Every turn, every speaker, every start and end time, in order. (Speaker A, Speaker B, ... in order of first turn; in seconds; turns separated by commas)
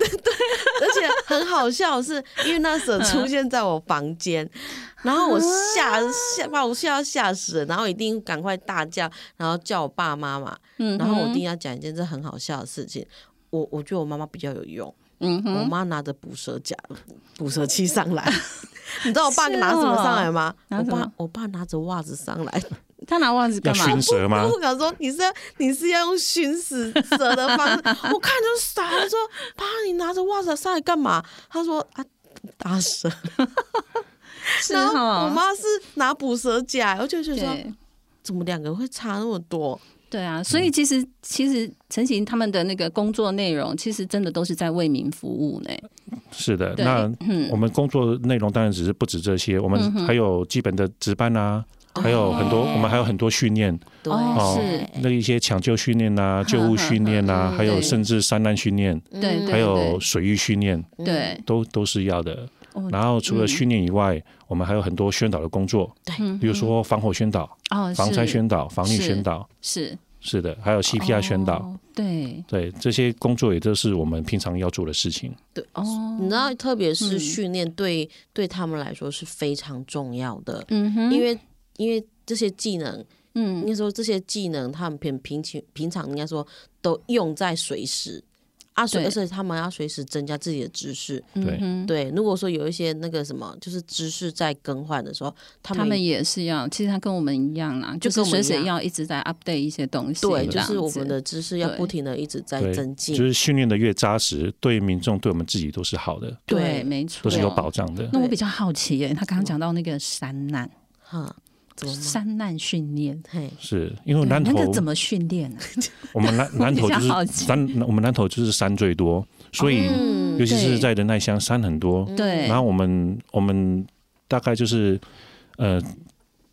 Speaker A: 0.3-15.0, Speaker B: 3.0-3.3, Speaker B: 5.2-6.3, Speaker B: 10.8-11.4, Speaker B: 15.2-15.7, Speaker A: 15.5-22.8, Speaker B: 19.2-21.1, Speaker B: 23.0-24.0, Speaker C: 23.6-24.6, Speaker A: 23.8-33.2, Speaker B: 34.5-35.4, Speaker A: 34.6-37.6, Speaker B: 37.3-37.7, Speaker A: 38.2-39.8, Speaker B: 40.1-45.9, Speaker C: 46.3-69.5, Speaker B: 46.8-47.6, Speaker B: 49.8-50.1, Speaker A: 52.0-52.9, Speaker B: 52.0-53.0, Speaker A: 54.0-55.0, Speaker B: 54.1-54.9, Speaker B: 56.4-58.0, Speaker A: 57.3-58.0, Speaker A: 59.1-59.7, Speaker B: 59.2-60.0, Speaker A: 61.0-61.4, Speaker B: 61.0-61.4, Speaker B: 62.7-63.6, Speaker B: 66.2-66.7, Speaker B: 67.7-70.0, Speaker C: 70.2-71.7, Speaker B: 70.9-72.5, Speaker C: 72.5-75.4, Speaker B: 75.7-77.4, Speaker A: 76.2-83.1, Speaker B: 80.7-81.3, Speaker B: 83.3-83.7, Speaker A: 83.6-88.2, Speaker A: 88.8-96.0, Speaker B: 88.9-89.2, Speaker B: 91.3-91.9, Speaker B: 95.7-101.9, Speaker A: 98.0-98.7, Speaker A: 100.2-103.3, Speaker C: 102.6-106.5, Speaker B: 106.5-110.7, Speaker A: 106.5-107.5, Speaker C: 107.2-108.1, Speaker A: 108.1-108.4, Speaker A: 111.0-112.2, Speaker B: 111.9-113.2, Speaker A: 113.3-113.6, Speaker C: 113.6-114.8, Speaker B: 114.2-115.8, Speaker C: 116.1-125.0, Speaker B: 116.6-117.7, Speaker B: 119.6-120.9, Speaker A: 119.6-120.7, Speaker A: 122.1-122.6, Speaker B: 122.2-122.6, Speaker C: 125.6-126.0